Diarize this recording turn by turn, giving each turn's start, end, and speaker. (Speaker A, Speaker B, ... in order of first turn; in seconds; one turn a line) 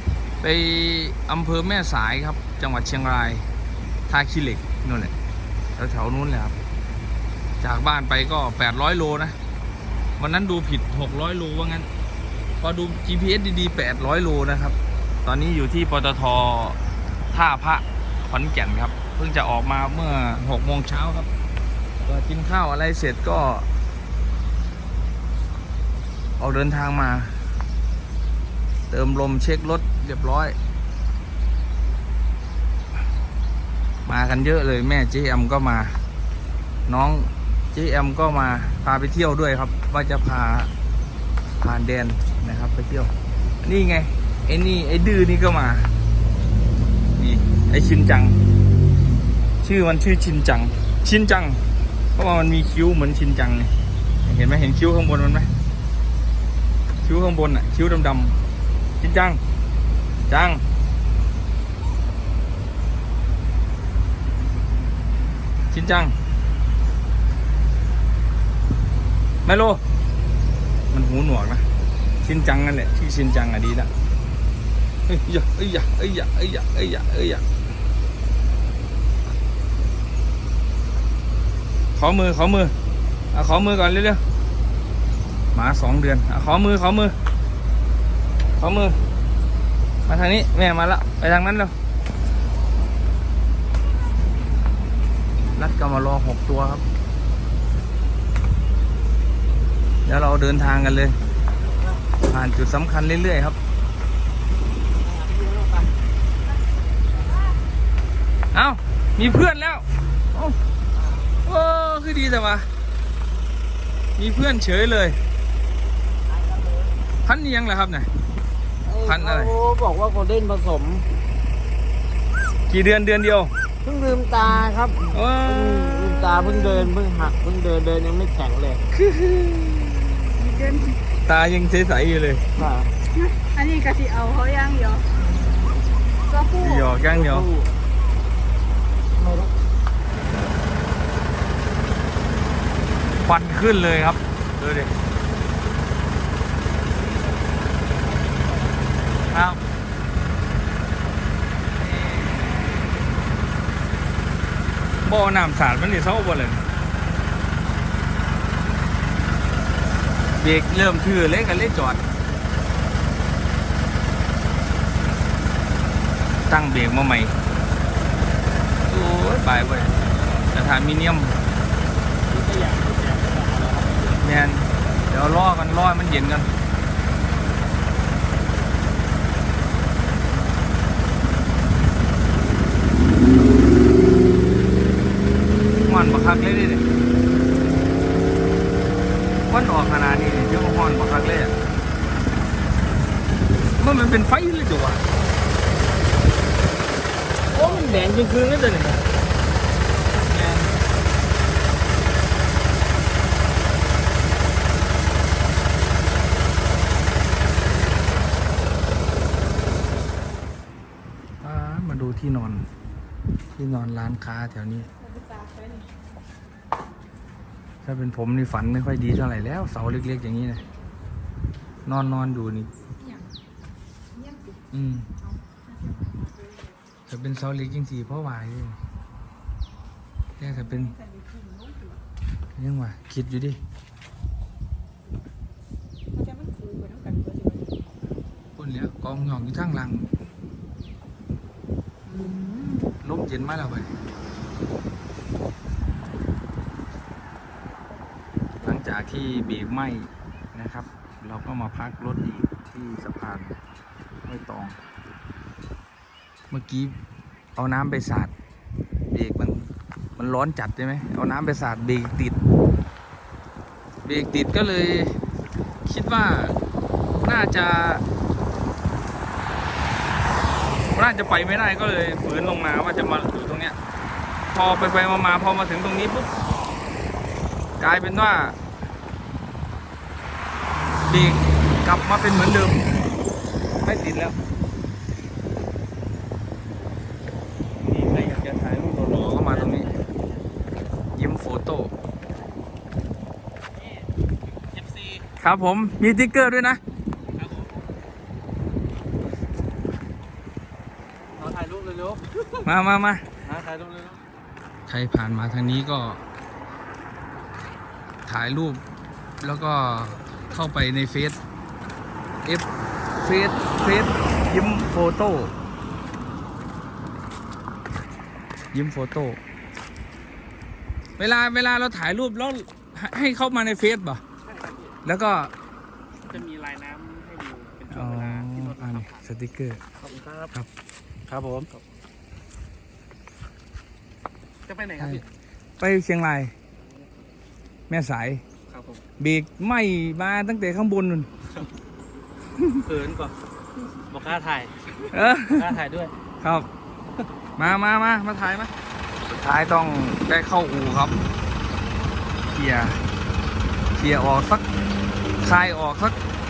Speaker A: 0.4-3.5
Speaker A: 4.1-5.1
Speaker A: 5.8-6.6
Speaker A: 7.6-9.4
Speaker A: 10.2-11.9
Speaker A: 12.6-16.8
Speaker A: 17.3-21.3
Speaker A: 22.0-23.7
Speaker A: 26.4-27.4
Speaker A: 28.9-30.6
Speaker A: 34.0-36.0
Speaker A: 36.9-40.7
Speaker A: 41.6-43.1
Speaker A: 43.6-45.9
Speaker A: 47.2-48.4
Speaker A: 49.6-51.6
Speaker A: 52.2-53.7
Speaker A: 54.2-55.5
Speaker A: 57.0-58.4
Speaker A: 59.0-59.4
Speaker A: 60.3-60.6
Speaker A: 65.7-66.1
Speaker A: 69.5-69.8
Speaker A: 70.9-71.6
Speaker A: 72.2-73.9
Speaker A: 75.1-77.4
Speaker A: 82.0-82.7
Speaker A: 83.3-84.2
Speaker A: 85.5-87.1
Speaker A: 88.6-89.0
Speaker A: 90.1-91.7
Speaker A: 95.5-96.8
Speaker A: 100.0-101.1
Speaker B: 101.8-102.0
Speaker A: 102.2-103.6
Speaker B: 105.0-105.9
Speaker C: 107.1-107.5
Speaker A: 108.5-110.5
Speaker B: 110.9-111.3
Speaker A: 111.5-112.7
Speaker A: 114.2-115.2
Speaker B: 116.3-117.1
Speaker A: 117.2-118.1
Speaker B: 118.8-121.0
Speaker A: 119.0-119.5
Speaker A: 122.7-123.5
Speaker B: 123.8-128.8
Speaker A: 125.1-126.9
Speaker A: 128.9-130.2
Speaker C: 130.4-131.0
Speaker A: 131.2-132.4
Speaker B: 132.6-132.9
Speaker C: 133.1-135.1
Speaker C: 136.2-137.0
Speaker A: 136.6-137.5
Speaker B: 137.0-137.7
Speaker B: 139.2-139.5
Speaker A: 143.2-144.9
Speaker B: 146.9-149.4
Speaker A: 149.3-149.6
Speaker B: 151.8-152.8
Speaker A: 155.1-156.6
Speaker A: 160.4-162.0
Speaker A: 166.5-167.3
Speaker A: 168.9-169.9
Speaker A: 170.5-171.4
Speaker B: 172.3-174.3
Speaker A: 174.2-176.5
Speaker A: 185.9-186.8
Speaker A: 189.5-191.5
Speaker A: 193.8-195.0
Speaker A: 197.5-199.0
Speaker B: 197.6-198.2
Speaker A: 200.3-200.7
Speaker A: 211.4-212.7
Speaker A: 213.6-214.9
Speaker C: 215.0-215.9
Speaker A: 217.8-220.6
Speaker A: 221.9-222.7
Speaker C: 223.0-223.3
Speaker C: 224.1-224.6
Speaker A: 224.7-225.1
Speaker C: 225.2-226.8
Speaker A: 227.1-228.8
Speaker A: 230.4-230.9
Speaker C: 230.4-232.0
Speaker A: 232.6-233.6
Speaker C: 236.1-237.8
Speaker A: 238.6-240.1
Speaker C: 242.1-242.9
Speaker A: 243.0-243.9
Speaker A: 248.6-253.6
Speaker A: 254.3-254.8
Speaker A: 256.5-257.0
Speaker A: 257.6-258.3
Speaker A: 259.1-262.4
Speaker A: 264.1-265.2
Speaker A: 265.9-266.6
Speaker A: 267.2-268.0
Speaker A: 270.9-273.8
Speaker A: 274.5-276.3
Speaker A: 277.8-278.6
Speaker A: 281.1-282.8
Speaker A: 283.8-284.4
Speaker A: 287.9-289.9
Speaker B: 289.4-290.5
Speaker A: 291.1-291.9
Speaker B: 293.8-294.1
Speaker B: 294.6-295.2
Speaker A: 295.4-296.8
Speaker B: 297.3-297.9
Speaker B: 301.4-302.7
Speaker A: 302.6-303.2
Speaker B: 303.4-304.2
Speaker A: 304.9-306.2
Speaker A: 308.3-308.8
Speaker A: 309.4-311.4
Speaker A: 313.2-315.5
Speaker A: 318.7-319.4
Speaker A: 321.2-324.2
Speaker B: 324.4-325.0
Speaker A: 325.1-325.5
Speaker B: 326.3-329.2
Speaker A: 327.9-329.8
Speaker B: 330.0-330.5
Speaker A: 331.3-331.6
Speaker B: 331.3-331.8
Speaker B: 334.7-335.2
Speaker A: 335.8-336.5
Speaker A: 337.9-338.4
Speaker B: 338.7-339.0
Speaker A: 339.2-341.3
Speaker B: 342.8-343.4
Speaker B: 344.1-346.1
Speaker A: 345.1-345.7
Speaker A: 346.4-346.7
Speaker A: 347.6-348.7
Speaker A: 349.2-351.2
Speaker A: 352.5-353.0
Speaker A: 353.9-354.6
Speaker A: 355.4-356.2